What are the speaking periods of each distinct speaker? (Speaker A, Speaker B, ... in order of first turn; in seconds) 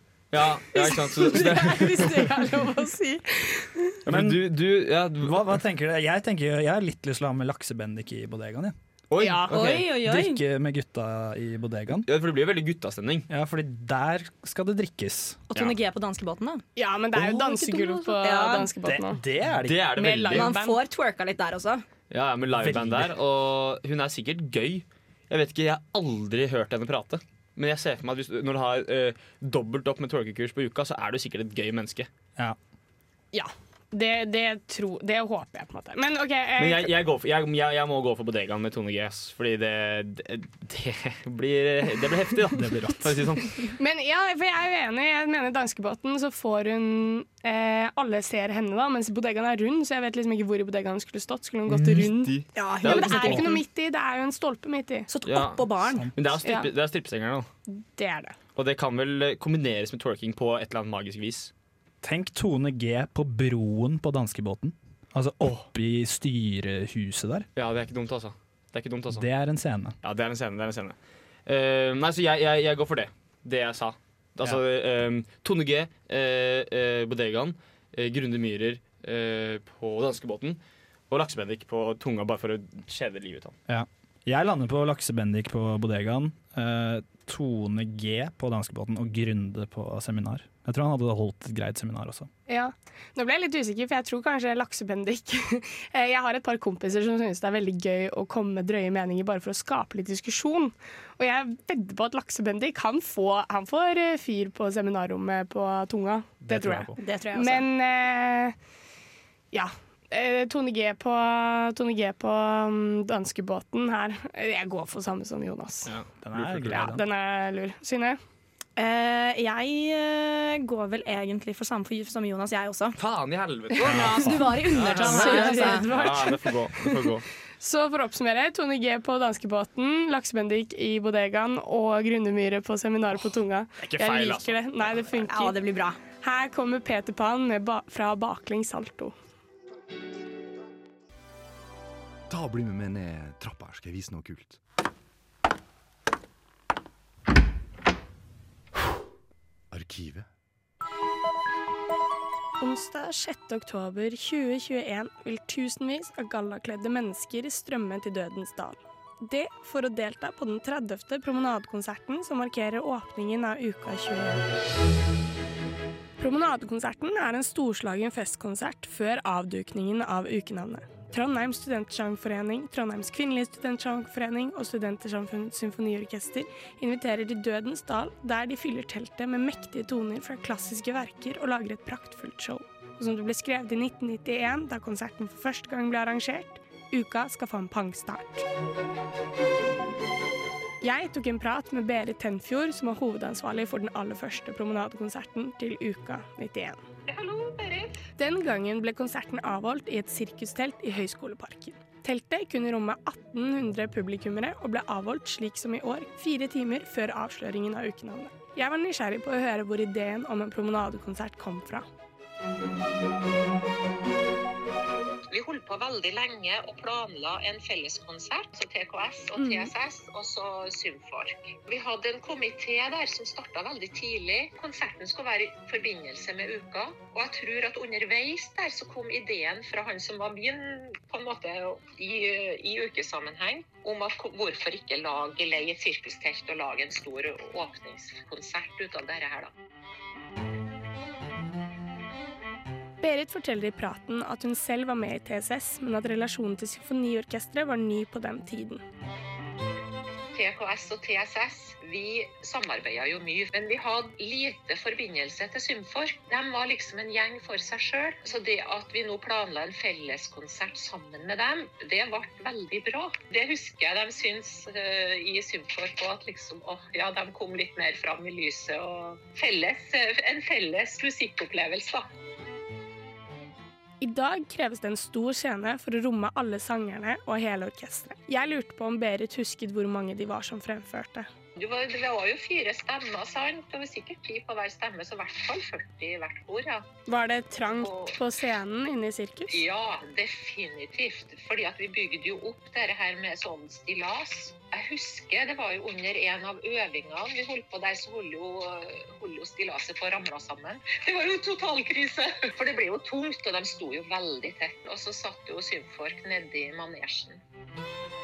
Speaker A: 0.3-2.4, 4.1-5.6, 9.1-9.9, 12.1-13.3, 19.6-20.5, 22.1-32.1, 36.6-43.6, 52.8-53.4, 55.3-57.5, 58.6-61.5, 67.6-69.3, 70.0-83.6, 115.9-116.9, 123.0-127.2, 133.8-134.6
Speaker B: 0.7-4.0, 9.2-9.5, 16.8-19.2, 20.0-20.8, 33.3-36.9, 43.8-55.1, 56.4-56.7, 57.7-58.4, 92.5-108.6, 109.5-115.9, 116.7-118.2, 124.8-127.1, 127.6-135.6, 136.1-139.1, 152.6-164.4, 166.2-188.4, 190.8-196.8, 198.2-211.9, 219.4-219.7, 243.0-248.8, 274.0-281.3, 287.1-289.6
Speaker C: 4.1-4.4, 5.2-8.8, 9.5-12.1, 13.3-15.4, 17.1-17.9, 18.8-20.0, 22.6-23.1, 42.6-43.1, 51.7-52.3, 55.9-56.1, 62.0-67.5, 69.1-70.0, 83.7-92.3, 106.5-106.9, 116.2-117.0, 123.9-124.4
Speaker D: 9.5-10.4, 15.5-16.6, 17.7-18.7, 20.4-21.9, 52.5-53.6, 55.1-56.1, 107.0-107.7, 118.8-123.0, 123.8-125.9, 135.3-136.0
Speaker E: 142.3-144.6, 149.7-150.2
Speaker F: 197.1-198.0, 215.3-239.5, 250.3-272.1, 281.6-286.9, 287.6-288.2, 289.5-307.4